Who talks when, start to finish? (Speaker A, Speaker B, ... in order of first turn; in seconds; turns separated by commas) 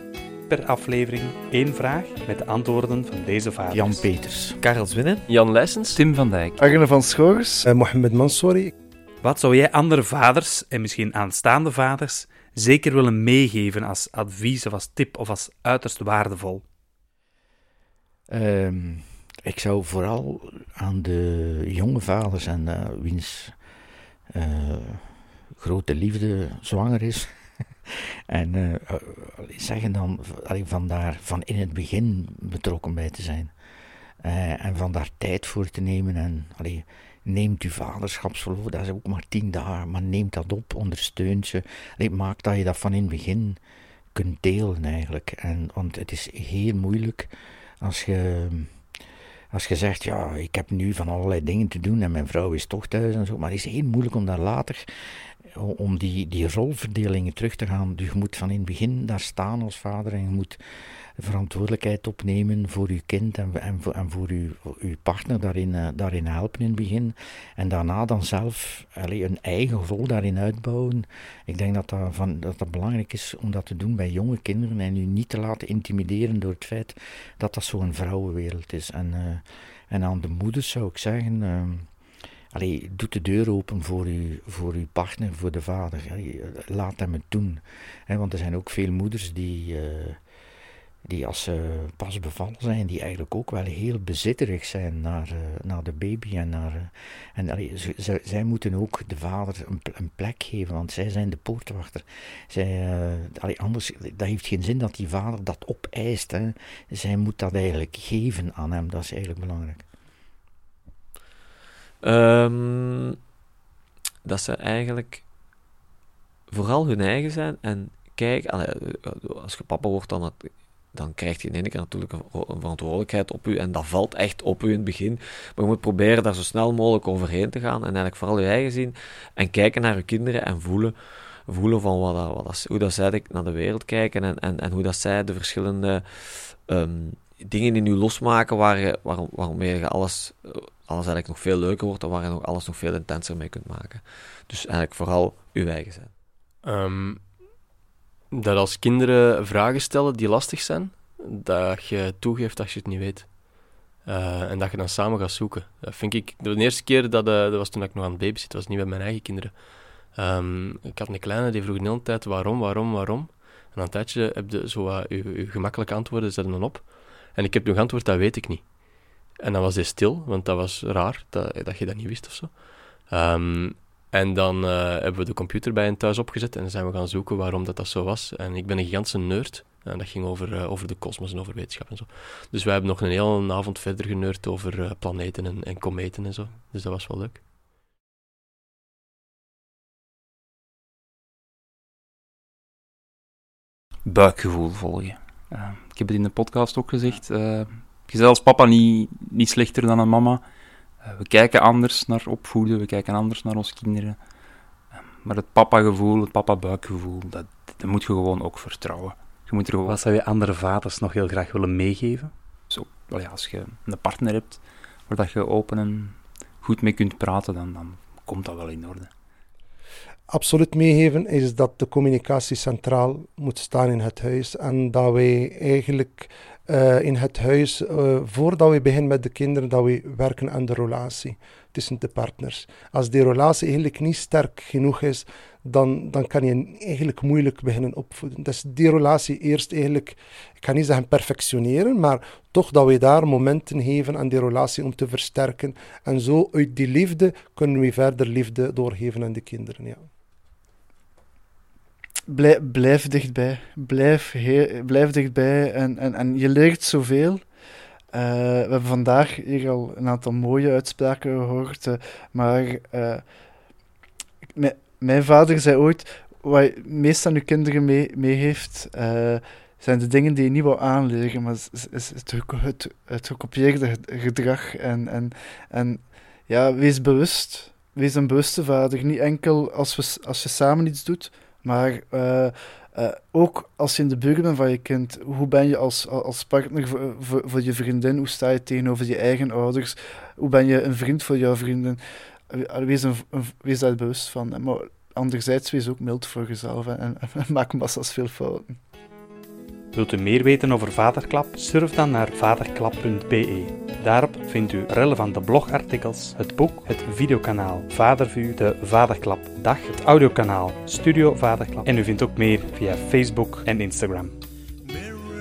Speaker A: 0.5-4.1, Speaker B: 3.7-4.6, Speaker C: 4.6-5.2, Speaker D: 5.3-6.0, Speaker E: 6.0-6.5, Speaker F: 6.6-7.6, Speaker G: 7.7-8.7, Speaker A: 9.2-16.6, Speaker B: 18.3-23.5, Speaker B: 24.3-27.3, Speaker B: 27.9-33.5, Speaker B: 34.2-43.6, Speaker B: 44.1-47.3, Speaker B: 47.8-48.7, Speaker B: 49.5-54.9, Speaker B: 55.5-60.6, Speaker B: 61.2-81.9, Speaker B: 82.5-90.2, Speaker B: 91.0-109.8, Speaker C: 112.0-113.2, Speaker C: 114.2-115.2, Speaker C: 116.5-130.9, Speaker C: 131.4-146.1, Speaker D: 146.6-147.5, Speaker D: 148.3-187.4, Speaker E: 194.0-200.4, Speaker E: 201.0-204.2, Speaker E: 204.9-209.9, Speaker A: 209.8-212.3, Speaker E: 212.7-219.1, Speaker G: 220.3-250.1, Speaker F: 252.3-257.4, Speaker F: 258.1-263.2, Speaker F: 264.6-298.8, Speaker A: 299.9-314.4